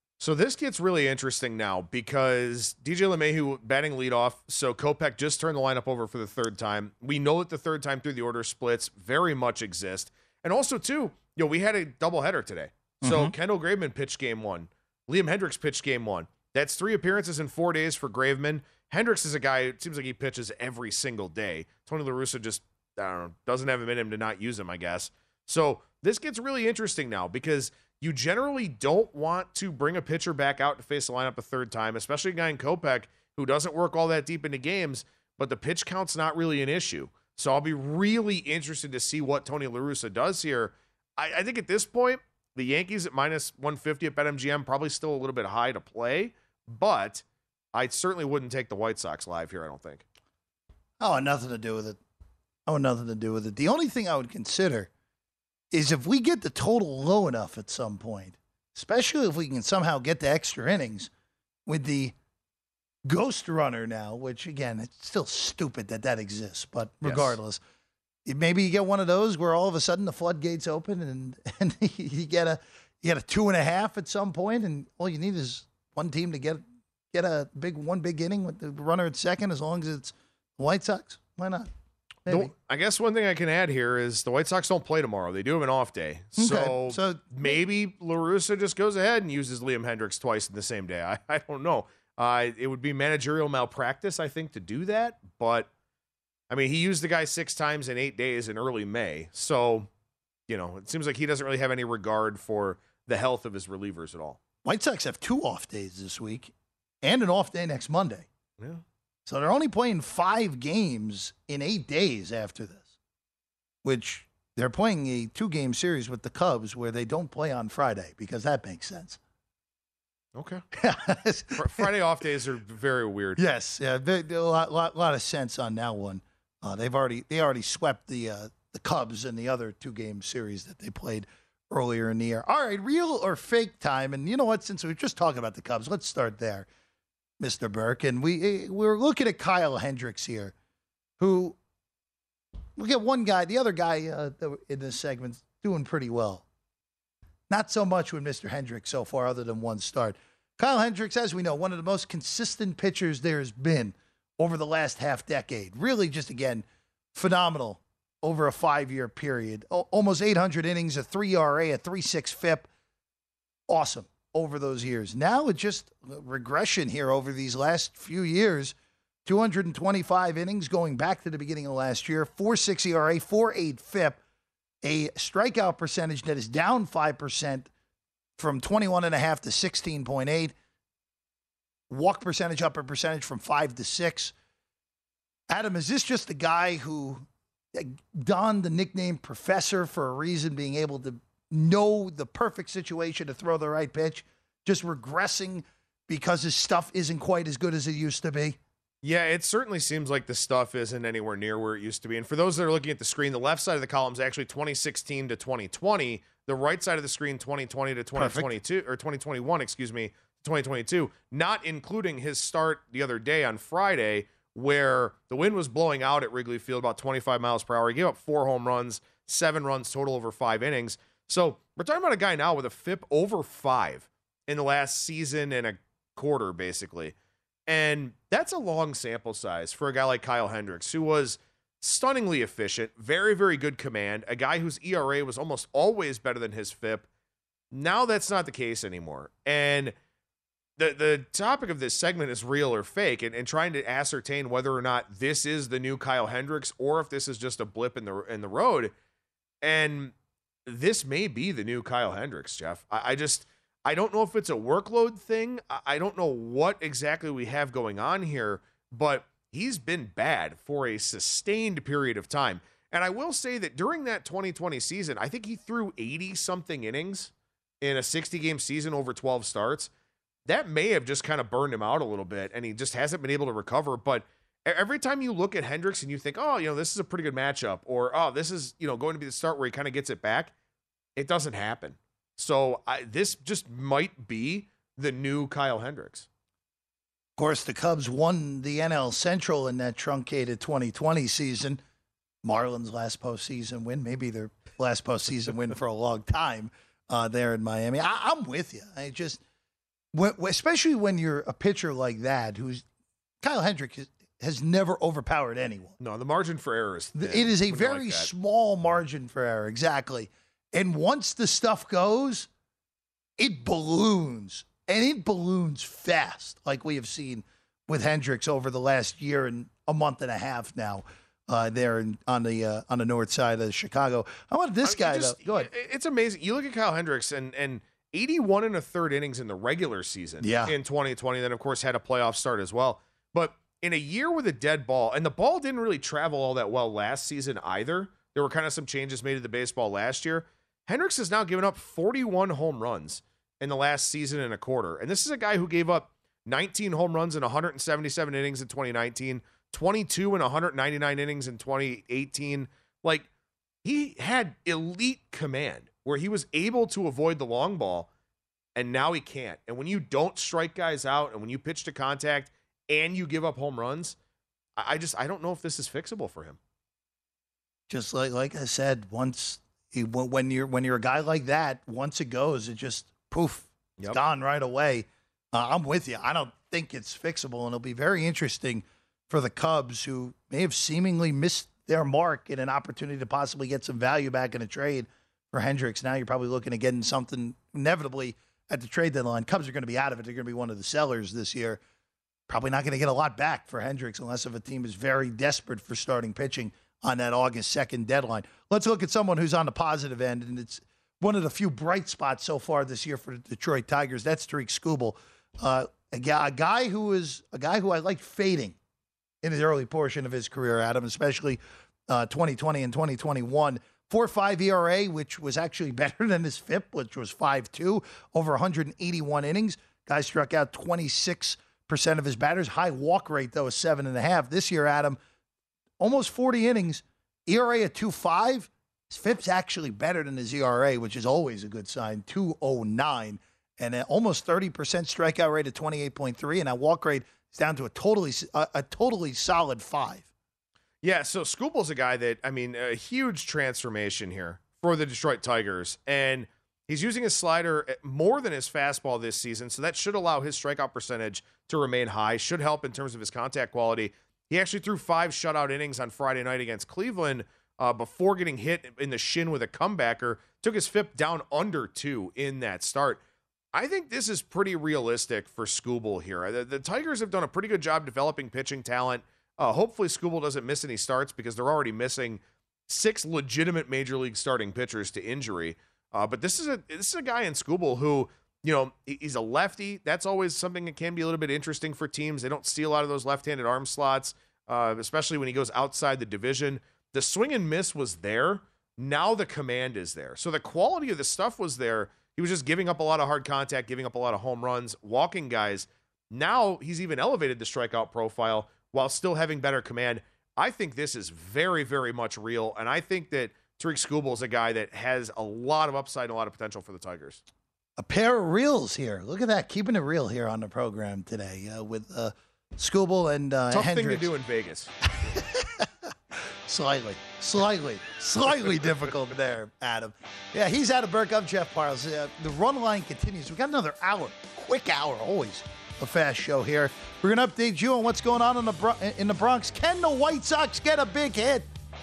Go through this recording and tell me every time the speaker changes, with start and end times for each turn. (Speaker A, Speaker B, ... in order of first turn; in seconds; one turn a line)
Speaker A: 0.2-50.0
Speaker B: 13.0-13.3
Speaker B: 51.0-52.0
Speaker B: 52.7-54.9
Speaker B: 55.7-61.1
Speaker B: 61.7-62.1
Speaker B: 63.1-67.6
Speaker A: 67.0-67.3
Speaker B: 68.3-76.6
Speaker B: 77.1-81.7
Speaker B: 82.3-82.5
Speaker A: 82.3-95.7
Speaker B: 86.4-87.6
Speaker A: 96.5-99.9
Speaker A: 100.5-104.4
Speaker B: 104.7-106.5
Speaker B: 107.0-108.3
Speaker B: 109.3-112.9
Speaker B: 113.8-119.2
Speaker A: 120.3-120.6
Speaker B: 120.7-121.9
Speaker A: 121.6-123.4
Speaker B: 123.4-136.7
Speaker B: 137.4-140.5
Speaker B: 141.2-141.6
Speaker B: 142.8-146.4
Speaker B: 147.5-162.7
Speaker B: 163.7-168.8
Speaker B: 169.3-174.2
Speaker B: 174.8-177.7
Speaker B: 178.4-180.5
Speaker B: 181.9-184.3
Speaker B: 185.5-198.6
Speaker A: 199.0-227.1
Speaker B: 208.2-208.5
Speaker A: 227.7-237.1
Speaker A: 237.7-239.9
Speaker A: 240.8-248.9
Speaker A: 249.6-250.1
Speaker A: 250.7-269.9
Speaker A: 270.5-280.5
Speaker A: 281.2-286.3
Speaker B: 287.4-291.8
Speaker B: 292.4-299.4
Speaker B: 300.1-302.9
Speaker B: 303.4-305.9
Speaker A: 306.0-308.3
Speaker B: 307.2-312.5
Speaker B: 313.4-325.7
Speaker A: 324.8-353.3
Speaker B: 330.4-330.8
Speaker A: 353.8-358.1
Speaker A: 358.8-364.2
Speaker A: 364.8-366.6
Speaker B: 367.9-391.8
Speaker B: 392.5-408.8
Speaker B: 409.4-425.2
Speaker B: 426.0-440.3
Speaker A: 441.0-463.2
Speaker A: 463.7-507.4
Speaker B: 508.0-514.3
Speaker A: 513.7-514.9
Speaker B: 515.1-531.7